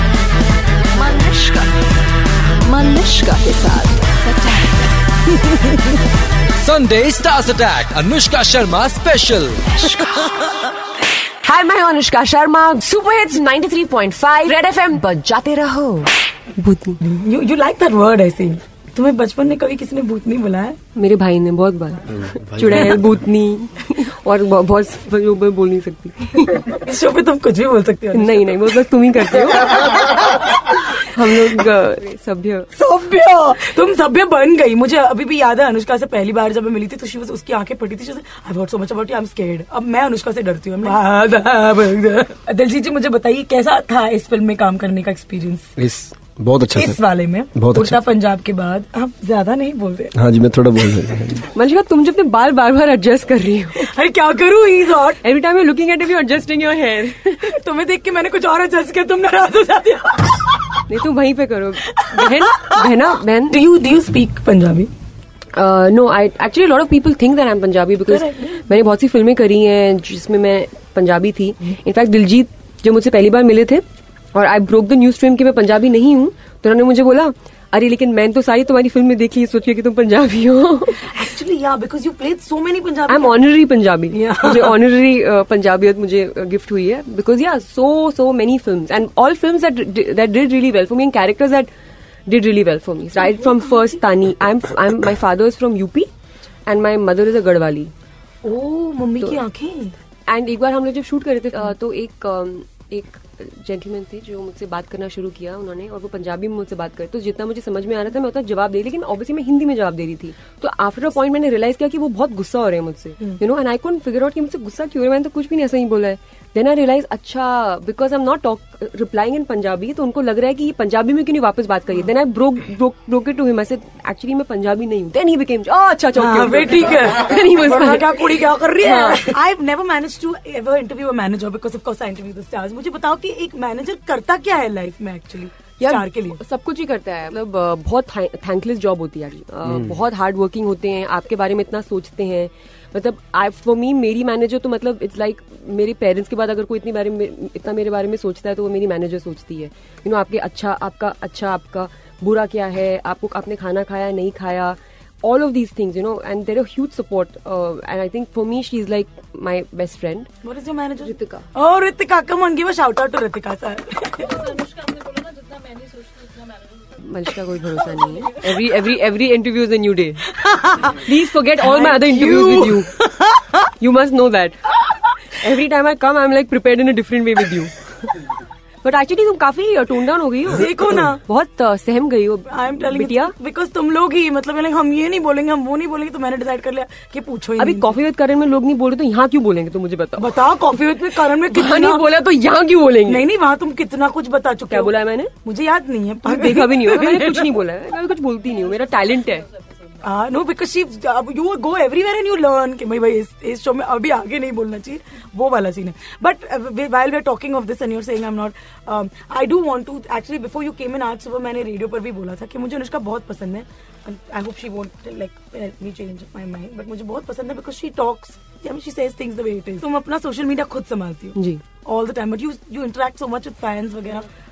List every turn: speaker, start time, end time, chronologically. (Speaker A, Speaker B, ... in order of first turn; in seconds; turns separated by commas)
Speaker A: 0.9-1.7, Speaker A: 2.6-4.8, Speaker B: 6.6-9.6, Speaker A: 9.7-10.1, Speaker C: 11.4-17.0, Speaker D: 17.0-20.8, Speaker C: 20.9-26.8, Speaker E: 22.3-22.9, Speaker D: 26.8-28.6, Speaker C: 28.1-32.7, Speaker D: 32.7-45.7, Speaker E: 45.8-47.0, Speaker D: 46.8-50.1, Speaker E: 47.5-48.0, Speaker E: 50.1-51.5, Speaker C: 51.5-53.9, Speaker D: 53.8-55.2, Speaker C: 55.2-57.5, Speaker D: 57.4-60.8, Speaker C: 60.9-63.6, Speaker D: 62.0-62.7, Speaker D: 63.5-64.9, Speaker C: 65.5-81.1, Speaker D: 68.1-68.6, Speaker D: 81.0-83.4, Speaker C: 83.1-91.7, Speaker D: 84.1-84.8, Speaker C: 92.3-96.1, Speaker C: 96.7-97.9, Speaker D: 98.4-99.9, Speaker C: 100.3-129.4, Speaker D: 126.2-136.4, Speaker C: 135.8-160.3, Speaker D: 160.4-165.6, Speaker C: 161.1-161.5, Speaker C: 166.9-172.9, Speaker D: 171.6-173.3, Speaker C: 173.8-178.3, Speaker C: 178.8-183.3, Speaker D: 180.5-181.2, Speaker D: 182.5-187.9, Speaker C: 187.6-193.2, Speaker D: 190.2-192.1, Speaker D: 193.1-197.5, Speaker C: 194.7-195.3, Speaker C: 196.2-199.5, Speaker D: 200.0-224.3, Speaker C: 221.4-221.6